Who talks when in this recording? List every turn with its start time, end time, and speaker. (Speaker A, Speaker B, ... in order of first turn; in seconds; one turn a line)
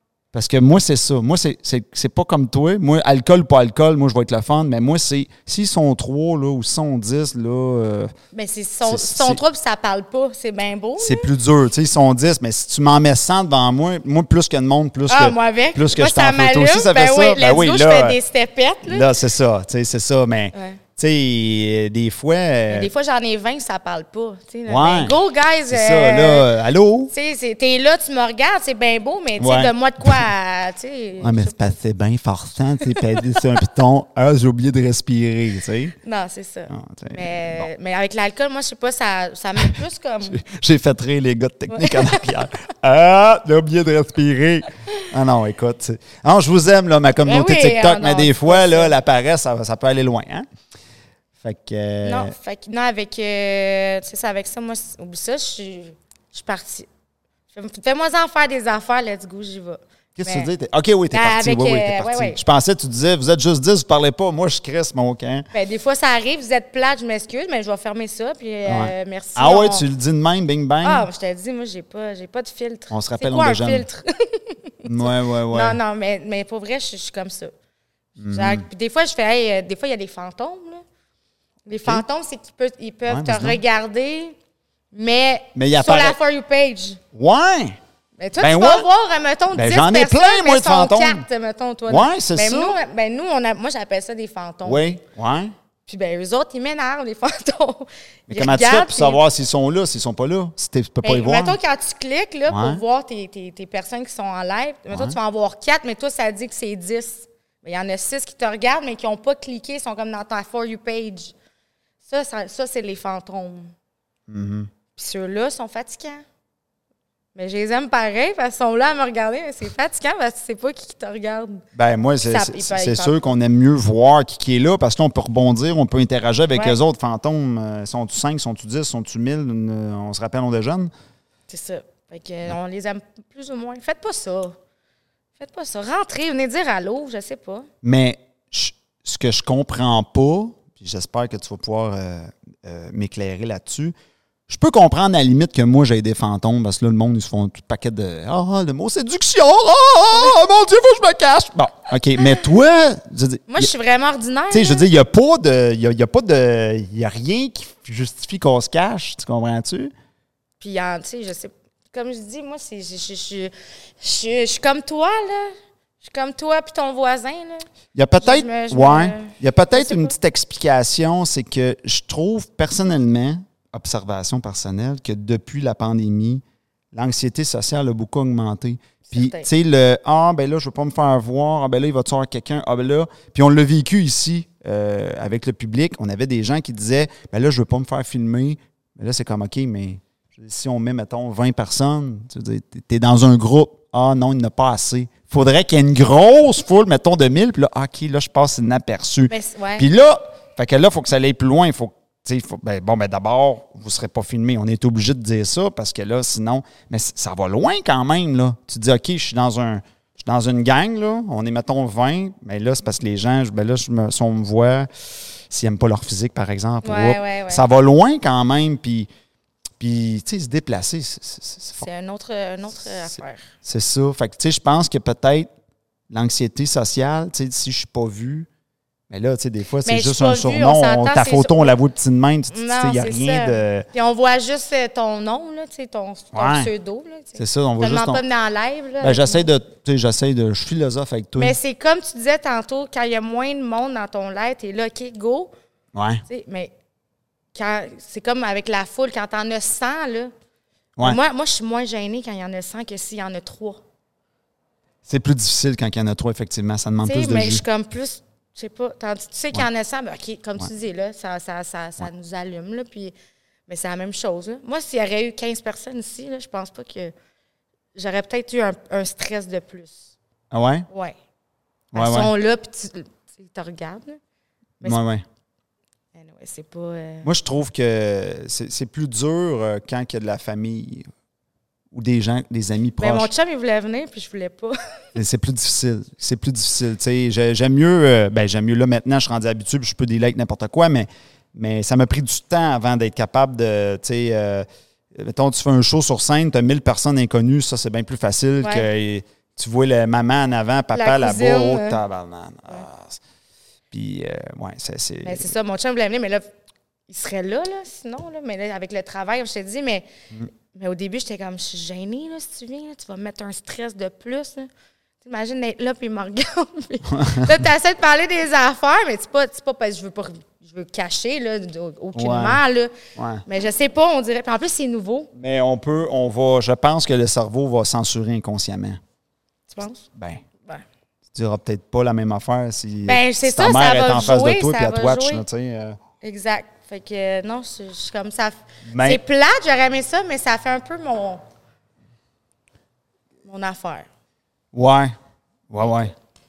Speaker A: 0.3-8.1
Speaker B: 8.3-11.3
Speaker A: 8.8-9.4
Speaker A: 11.0-18.2
Speaker B: 15.1-19.1
Speaker A: 18.9-22.9
Speaker B: 20.5-20.8
Speaker B: 22.7-26.5
Speaker A: 24.7-25.2
Speaker A: 25.7-27.1
Speaker B: 27.1-31.7
Speaker A: 29.4-30.3
Speaker A: 31.2-36.0
Speaker B: 36.0-40.4
Speaker A: 36.7-37.7
Speaker A: 40.3-50.5
Speaker B: 41.7-42.3
Speaker B: 47.2-49.0
Speaker A: 51.4-52.3
Speaker B: 52.0-56.9
Speaker B: 57.5-60.5
Speaker A: 60.2-65.5
Speaker B: 61.1-62.4
Speaker B: 65.5-69.9
Speaker A: 68.7-71.1
Speaker B: 70.8-77.5
Speaker A: 72.9-73.9
Speaker A: 74.8-75.8
Speaker A: 78.2-78.7
Speaker B: 78.3-80.8
Speaker B: 81.7-84.4
Speaker A: 83.1-83.6
Speaker B: 84.9-87.0
Speaker A: 85.5-86.2
Speaker A: 87.1-87.8
Speaker B: 88.2-94.9
Speaker A: 88.4-88.9
Speaker A: 89.5-91.2
Speaker A: 91.9-92.8
Speaker A: 94.7-95.5
Speaker B: 95.9-99.2
Speaker A: 98.3-101.6
Speaker B: 101.0-111.3
Speaker A: 102.5-102.8
Speaker A: 104.9-105.2
Speaker B: 112.0-113.7
Speaker A: 114.3-114.7
Speaker B: 115.0-116.2
Speaker B: 117.3-121.7
Speaker A: 121.7-130.9
Speaker B: 122.2-123.2
Speaker B: 131.5-134.6
Speaker B: 135.4-137.7
Speaker A: 137.8-143.9
Speaker A: 144.5-153.7
Speaker B: 153.5-154.8
Speaker A: 154.5-159.9
Speaker B: 160.6-167.7
Speaker A: 167.9-176.4
Speaker B: 168.2-170.2
Speaker A: 176.9-219.1
Speaker B: 179.1-179.5
Speaker B: 199.3-199.9
Speaker B: 216.8-217.6
Speaker A: 219.8-221.9
Speaker B: 221.8-223.5
Speaker A: 223.6-225.5
Speaker A: 226.1-228.5
Speaker A: 229.1-233.9
Speaker B: 229.8-231.8
Speaker B: 232.5-239.5
Speaker A: 236.3-236.7
Speaker A: 237.4-238.2
Speaker A: 239.0-241.6
Speaker B: 241.4-245.5
Speaker A: 245.9-246.2
Speaker B: 246.3-246.7
Speaker B: 247.5-250.3
Speaker B: 251.0-253.8
Speaker A: 255.1-257.6
Speaker B: 257.0-263.1
Speaker B: 263.7-267.1
Speaker B: 267.9-270.1
Speaker A: 270.5-270.9
Speaker B: 270.9-271.1
Speaker A: 271.9-272.3
Speaker B: 271.9-274.2
Speaker A: 274.8-275.2
Speaker B: 276.1-277.3
Speaker A: 277.2-281.1
Speaker A: 281.9-283.3
Speaker B: 283.0-284.8
Speaker A: 285.1-303.2
Speaker B: 298.6-298.9
Speaker B: 300.9-302.0
Speaker A: 303.9-305.5
Speaker B: 305.2-306.5
Speaker B: 307.1-310.1
Speaker B: 310.7-314.7
Speaker B: 315.2-322.9
Speaker A: 317.1-317.5
Speaker A: 322.1-322.6
Speaker A: 323.2-323.4
Speaker B: 323.5-325.3
Speaker A: 325.4-329.0
Speaker B: 329.7-330.1
Speaker A: 330.1-330.4
Speaker A: 331.3-336.0
Speaker B: 333.1-335.4
Speaker B: 336.2-341.4
Speaker A: 338.9-339.2
Speaker B: 343.4-344.1
Speaker A: 344.7-345.2
Speaker A: 345.7-346.1